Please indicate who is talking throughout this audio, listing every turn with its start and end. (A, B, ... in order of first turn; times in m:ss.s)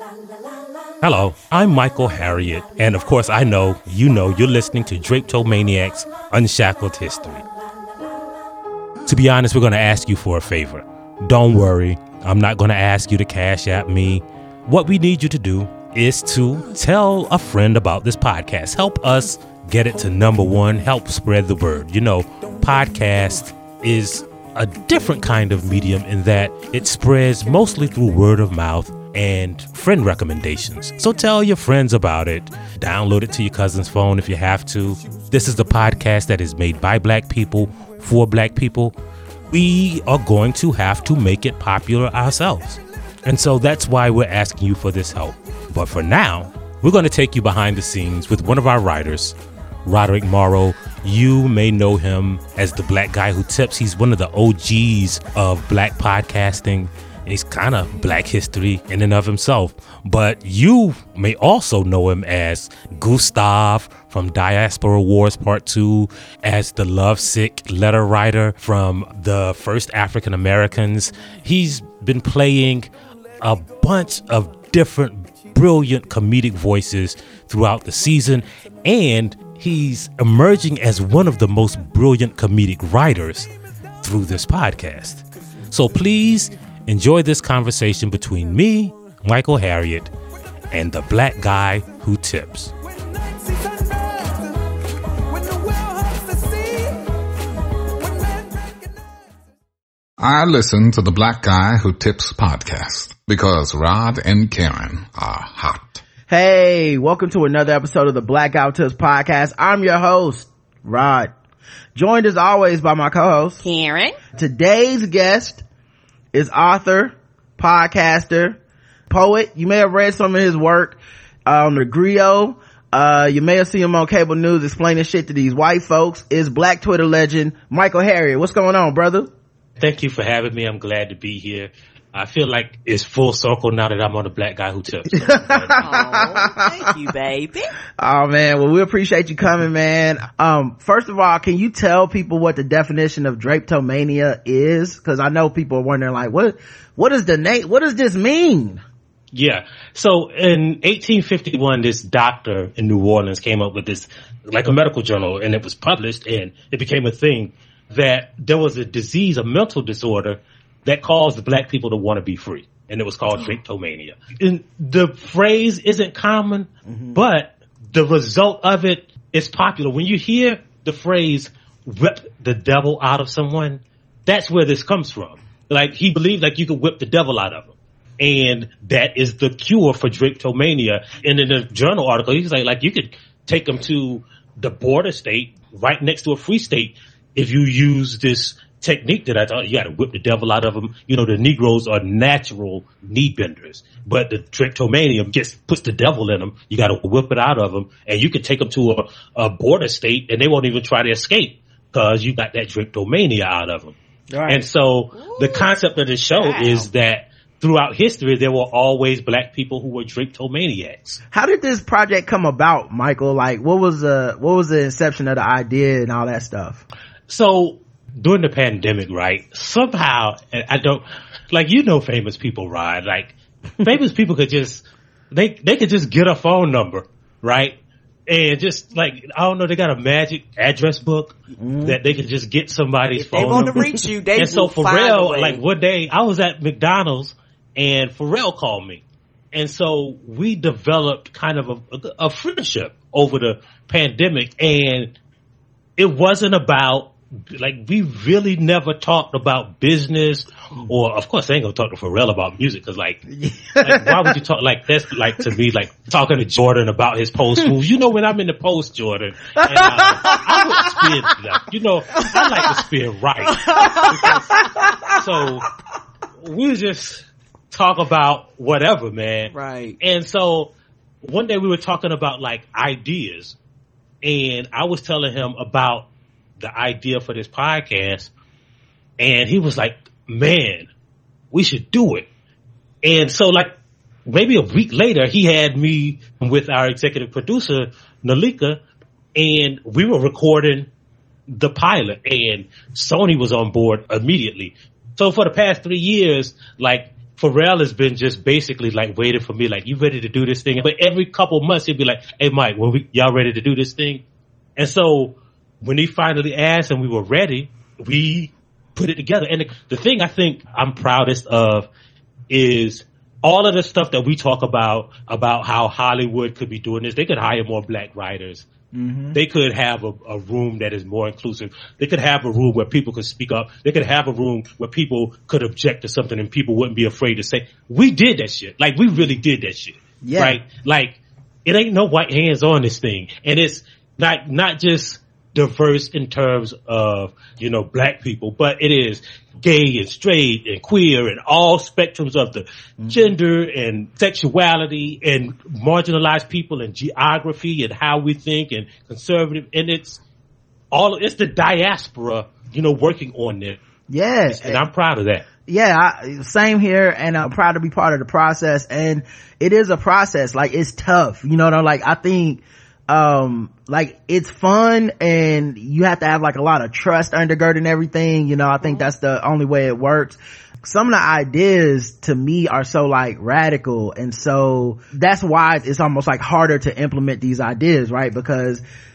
0:01.0-0:07.4 A
0:09.0-0:38.9 A
0:39.5-1:12.9 A
1:13.4-1:23.5 A
1:24.0-1:30.1 A
1:30.7-1:32.7 A
1:40.2-1:46.0 B
1:46.3-1:51.3 C
1:51.9-1:53.6 C
1:53.6-1:54.2 D
1:54.3-1:55.6 C
1:56.3-1:58.6 C
1:59.1-2:09.3 C
2:09.8-2:15.9 A
2:15.1-2:16.8 C
2:15.8-2:17.7 D
2:18.0-2:28.8 C
2:29.3-3:24.0 A
2:46.9-2:47.2 C
3:24.3-3:24.6 C
3:24.5-3:31.2 A
3:26.5-3:26.8 D
3:31.3-3:36.8 C
3:37.3-3:59.0 A
3:51.6-3:52.0 C
3:53.2-3:55.6 D
3:53.4-3:54.0 C
3:59.5-4:05.1 A
4:06.0-4:13.2 A
4:13.3-4:14.4 C
4:13.8-4:24.4 A
4:19.6-4:20.2 C
4:20.0-4:20.8 D
4:22.2-4:22.6 D
4:23.4-4:24.6 D
4:24.3-4:25.1 C
4:25.2-4:25.7 A
4:26.4-4:30.7 A
4:29.5-4:30.0 D
4:31.2-4:33.6 A
4:34.2-4:36.1 A
4:36.6-4:38.3 A
4:39.2-4:40.9 A
4:41.5-4:42.3 A
4:43.0-4:43.7 A
4:44.3-4:48.8 A
4:49.4-4:50.9 A
4:51.5-5:04.2 A
5:04.8-5:11.9 A
5:12.5-5:18.7 A
5:18.9-5:19.4 C
5:19.3-5:50.2 A
5:30.2-5:30.6 C
5:43.0-5:43.3 C
5:50.9-5:53.8 A
5:54.1-5:54.8 C
5:54.5-5:55.4 A
5:55.6-6:18.8 C
6:08.8-6:09.1 D